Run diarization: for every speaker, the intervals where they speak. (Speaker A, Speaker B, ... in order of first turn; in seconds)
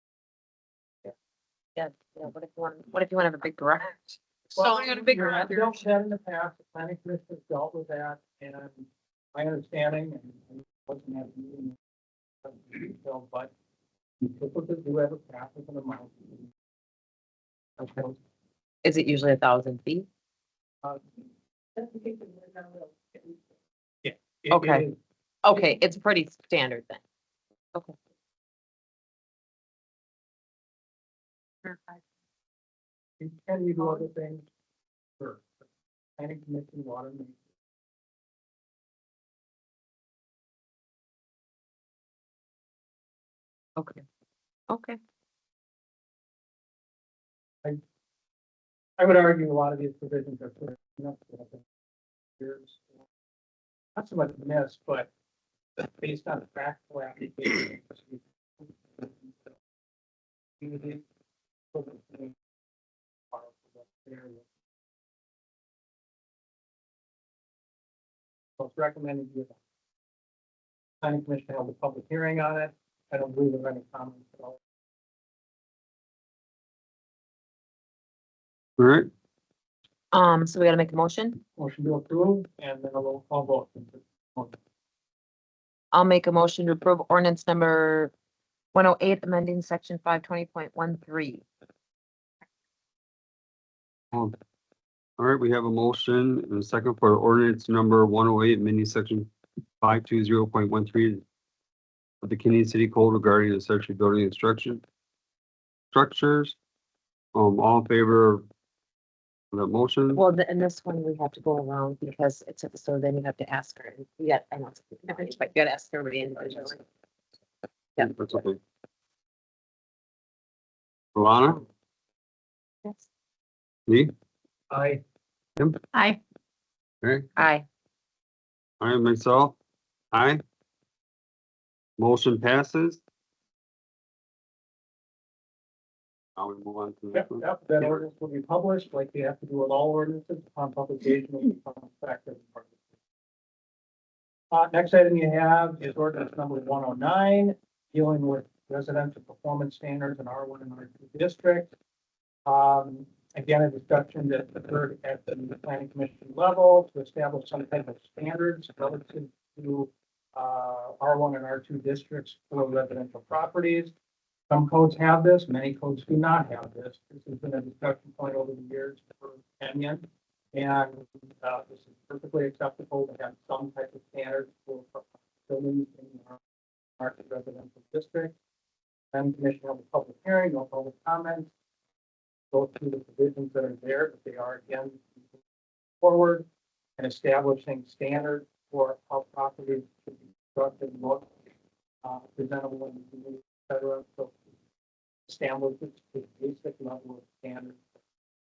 Speaker A: 1.8-4.2, 18.8-20.1, 24.5-24.8, 25.4-27.0, 43.8-44.0, 44.7-45.0, 80.1-81.4, 85.9-88.1, 88.7-91.4, 110.1-116.8, 118.0-118.3, 127.4-127.6
Speaker B: 4.5-11.8, 12.4-13.5, 14.2-16.5, 17.8-18.2, 21.8-23.2, 24.0-25.0, 33.2-34.5, 35.2-35.5, 36.2-37.4, 49.0-51.7, 52.4-53.0, 54.0-55.1, 55.9-59.5, 60.6-61.0, 61.7-62.4, 63.3-64.4, 68.6-69.6, 71.0-74.6, 81.6-84.6, 124.7-125.0, 137.1-142.8, 144.5-151.7, 152.4-163.9, 164.5-176.4, 177.0-178.3, 179.1-181.5, 182.5-185.2, 186.0-186.4, 187.0-191.3, 192.0-194.3, 195.3-197.8
Speaker C: 4.5-5.8, 31.6-32.0, 125.9-126.2
Speaker D: 78.8-79.1, 95.2-101.2, 102.2-104.8, 105.9-106.5, 107.3-108.4, 109.5-110.2, 118.0-118.6, 121.1-121.6, 127.0-127.3, 128.8-129.6, 130.1-130.4, 132.0-133.0, 136.4-138.0